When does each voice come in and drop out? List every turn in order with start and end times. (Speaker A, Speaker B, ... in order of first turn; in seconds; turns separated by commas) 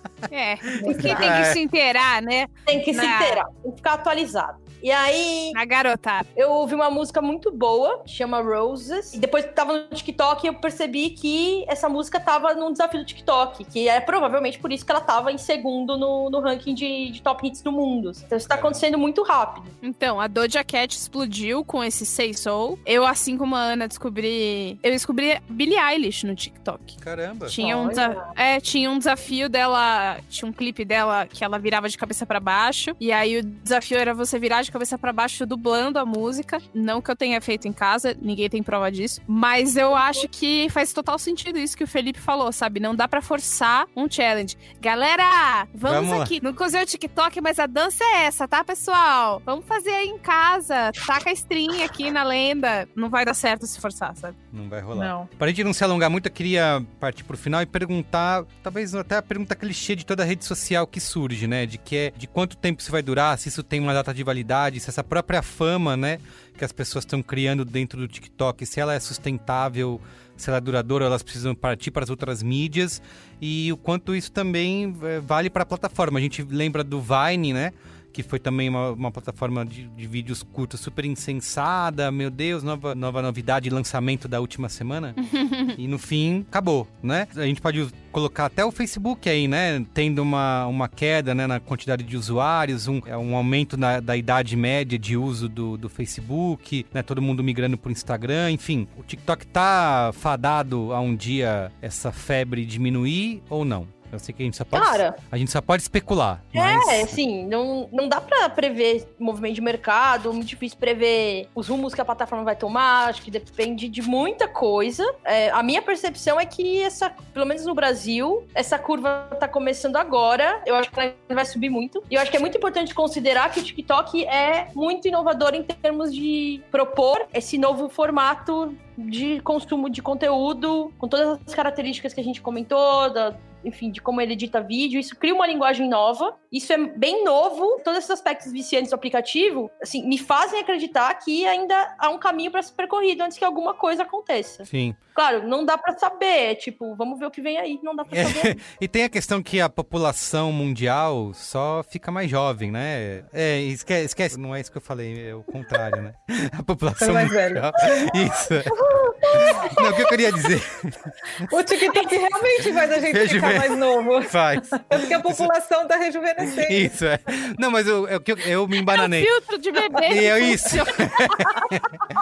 Speaker A: 0.3-3.4, Speaker B: 0.8-1.3, Speaker C: 0.8-1.6, Speaker B: 2.7-5.5, Speaker A: 5.5-6.2, Speaker B: 6.3-19.7, Speaker C: 18.4-18.8, Speaker A: 19.8-54.4, Speaker C: 27.0-27.6, Speaker B: 27.6-28.3, Speaker C: 45.9-46.3, Speaker C: 54.5-85.2, Speaker A: 85.2-85.7, Speaker C: 85.7-107.2, Speaker B: 104.7-105.2, Speaker B: 106.5-148.5, Speaker C: 144.7-145.0, Speaker C: 148.1-158.8, Speaker D: 157.0-158.1, Speaker C: 159.3-161.1, Speaker D: 159.3-159.6, Speaker D: 161.5-166.9, Speaker C: 163.1-165.5, Speaker C: 166.6-169.3, Speaker A: 168.9-171.5, Speaker C: 170.0-172.0